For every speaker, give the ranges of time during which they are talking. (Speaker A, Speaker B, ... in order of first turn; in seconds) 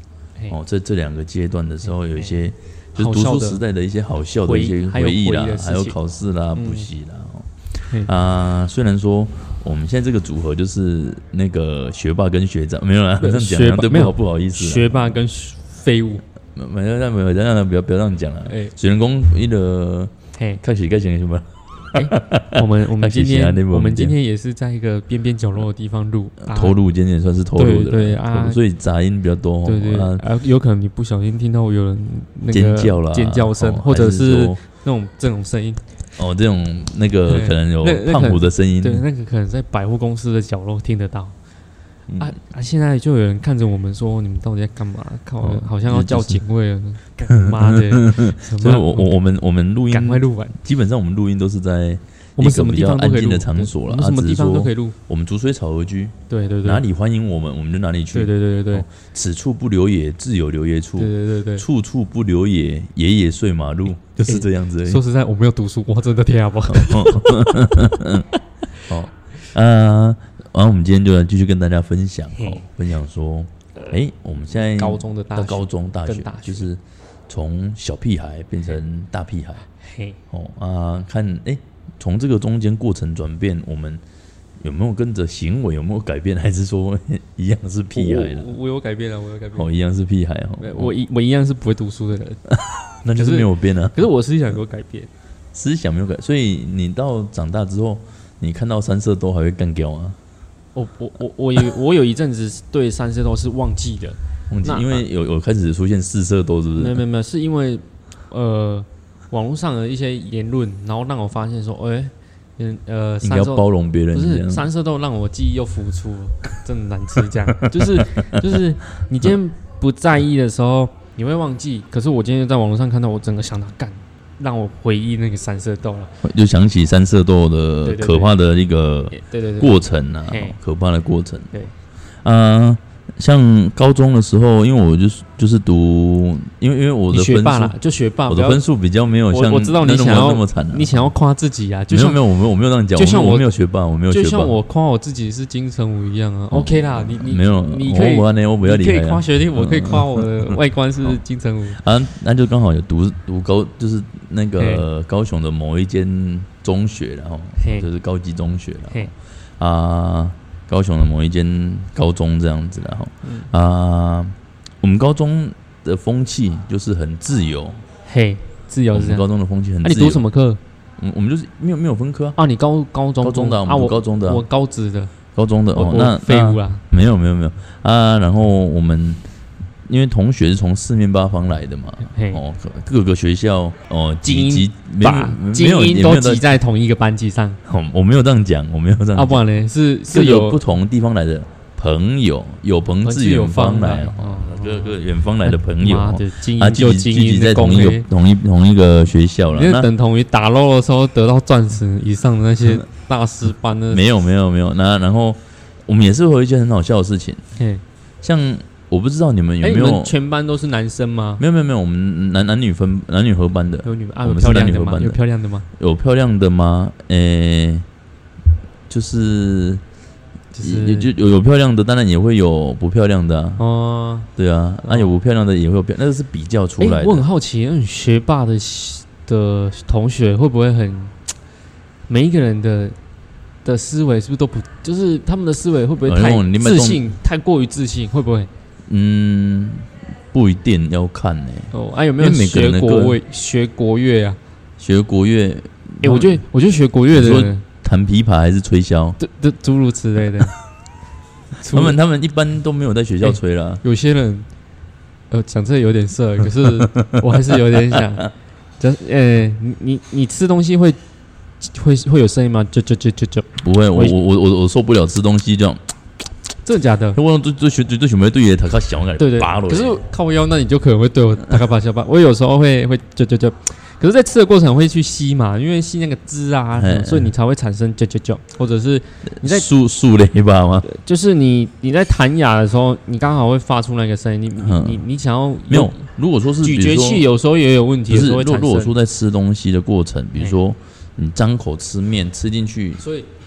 Speaker A: 0.5-15.2, 16.6-24.1, 26.4-30.2, 32.5-34.6, 36.2-39.0, 42.1-42.4, 45.4-46.4, 47.3-65.0, 66.7-79.7, 80.3-84.0, 84.6-88.5, 89.5-90.9, 92.7-94.1, 95.5-100.2, 104.5-107.0, 113.2-114.7, 117.6-118.6, 126.2-131.5, 132.2-137.7, 138.3-141.1, 141.9-144.6, 146.5-150.5, 151.7-167.8, 168.9-170.2, 171.0-172.4, 173.2-174.4, 175.3-179.2, 179.9-186.4, 187.7-189.4, 190.1-199.9, 203.9-207.4, 208.2-210.1, 211.4-215.2, 215.8-217.9, 218.9-219.8, 220.6-223.6, 224.4-227.2, 236.0-237.1, 238.9-243.2, 244.8-246.4, 247.1-249.2, 251.7-253.8, 256.6-258.3, 263.6-265.8, 267.1-270.0, 276.8-277.3, 279.3-280.9, 284.6-285.0, 285.7-287.3, 288.1-293.0
Speaker B: 3.0-3.6, 4.5-6.0, 6.5-6.9, 13.2-16.2, 18.5-18.7, 20.4-20.6, 21.9-26.8, 27.6-28.6, 29.6-35.8, 37.3-41.4, 42.2-49.1, 49.9-50.6, 52.4-55.0, 56.3-56.8, 58.1-58.9, 61.0-61.6, 64.2-67.5, 72.4-72.7, 74.5-76.7, 79.8-80.2, 87.9-89.7, 90.6-92.4, 93.2-95.1, 100.8-105.0, 106.8-126.2, 127.8-128.4, 129.1-130.6, 137.1-138.6, 139.3-142.2, 143.0-143.5, 144.1-151.8, 154.6-154.9, 157.6-157.9, 163.2-163.5, 168.1-169.3, 169.8-170.6, 172.4-175.1, 175.7-176.8, 182.1-182.4, 184.2-187.6, 189.1-190.6, 193.0-198.1, 199.5-204.1, 207.6-207.8, 209.6-211.4, 213.8-215.7, 220.5-221.1, 223.6-224.3, 224.8-225.1, 226.8-231.2, 232.1-233.0, 233.6-238.5, 241.7-244.4, 246.0-247.6, 249.2-250.5, 251.6-252.0, 253.2-254.5, 255.3-258.3, 258.8-261.0, 261.6-264.2, 266.6-267.2, 269.2-279.7, 280.8-286.0, 286.6-288.9, 293.0-293.3